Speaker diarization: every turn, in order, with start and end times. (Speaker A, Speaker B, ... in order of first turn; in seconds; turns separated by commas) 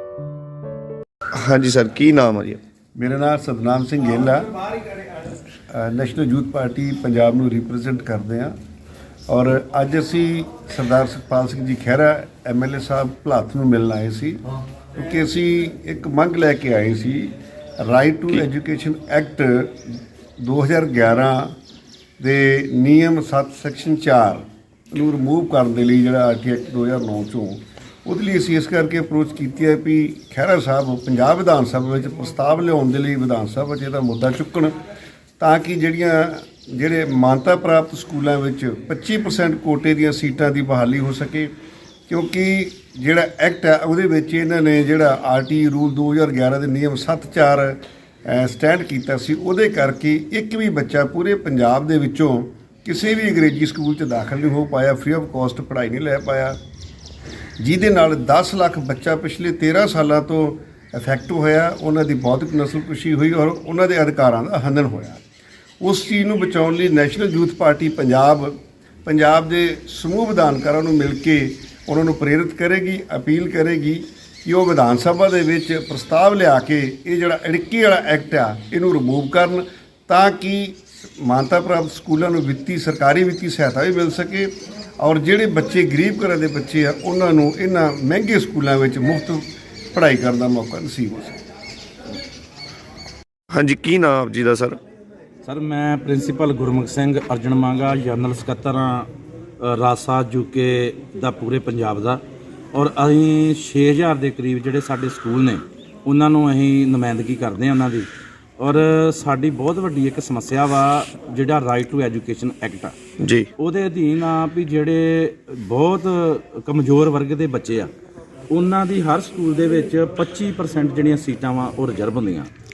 Speaker A: 1.4-2.6, Speaker B: 3.0-4.5, Speaker B: 5.7-8.5, Speaker B: 9.3-14.4, Speaker B: 14.9-19.8, Speaker B: 20.4-21.5, Speaker B: 22.2-34.7, Speaker B: 35.4-41.5, Speaker B: 42.1-56.5, Speaker B: 57.6-65.2, Speaker B: 65.8-91.3, Speaker A: 93.5-94.8, Speaker C: 95.4-99.1, Speaker C: 99.6-102.2, Speaker C: 102.7-113.0, Speaker A: 113.2-113.5, Speaker C: 113.6-117.9, Speaker C: 118.5-122.5